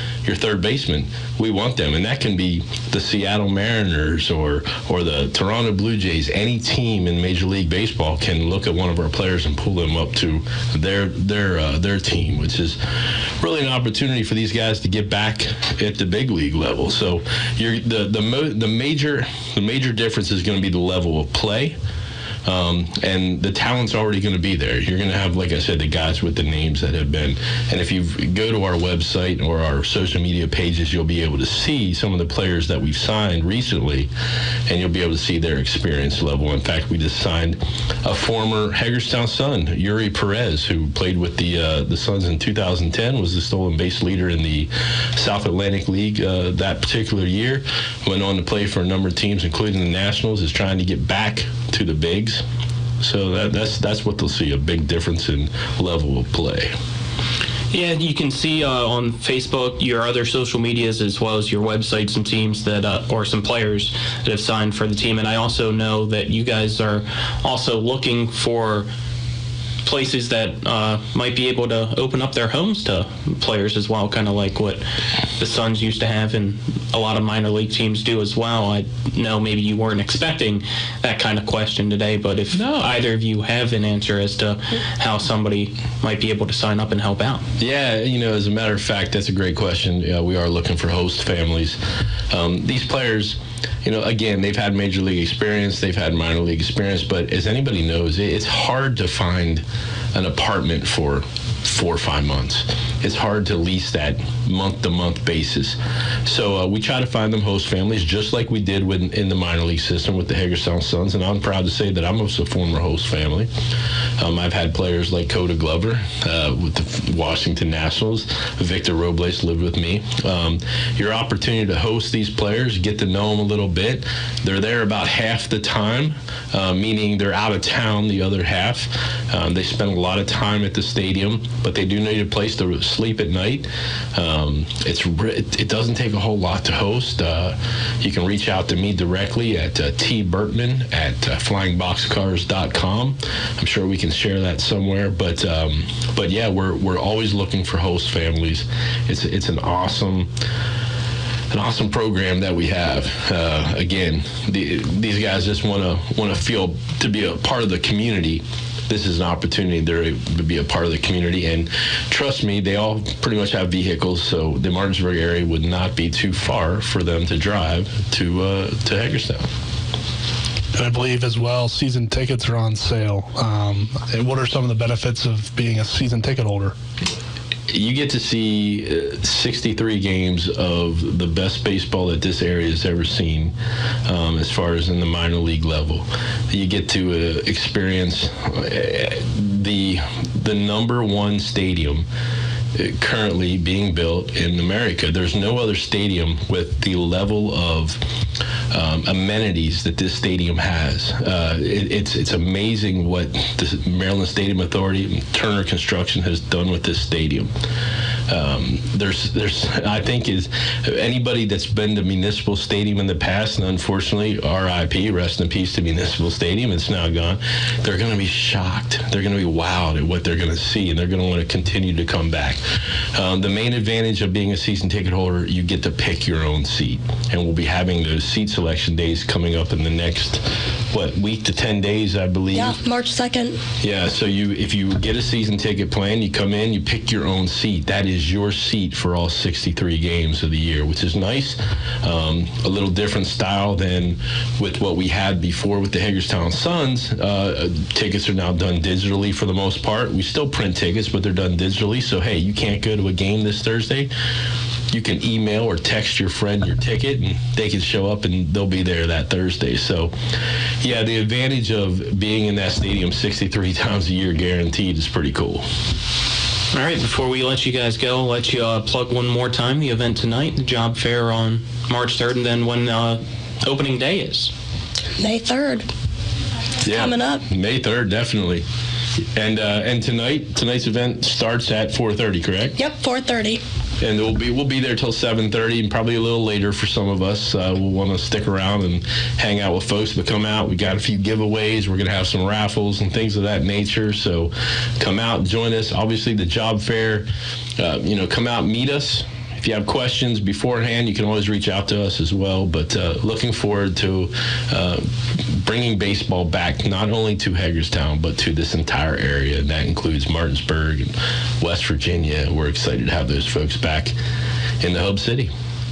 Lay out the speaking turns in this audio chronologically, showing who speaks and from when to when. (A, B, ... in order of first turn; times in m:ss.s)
0:00.2-0:12.8 A
0:13.4-0:21.8 A
0:22.4-0:34.1 A
0:34.7-0:52.4 A
0:53.0-0:56.7 A
0:57.7-1:08.9 B
1:09.8-1:14.8 B
1:15.4-1:27.4 B
1:22.5-1:22.9 A
1:27.6-1:31.8 A
1:32.3-1:53.5 A
1:54.2-2:30.3 A
2:31.5-2:49.4 A
2:50.7-2:56.7 C
2:57.7-3:03.5 A
3:04.0-3:12.0 A
3:12.7-3:18.0 A
3:18.7-3:27.5 A
3:28.3-3:42.6 A
3:43.1-3:52.8 A
3:52.5-3:53.6 D
3:53.8-4:14.1 A
4:14.9-4:20.1 A
4:20.8-4:25.6 A
4:26.7-4:34.5 B
4:35.2-4:35.8 D
4:36.8-4:38.6 A
4:36.9-4:37.4 D
4:39.3-4:42.7 A
4:42.8-4:43.6 D
4:44.0-4:57.3 A
4:57.8-5:14.1 A
5:14.8-5:15.5 A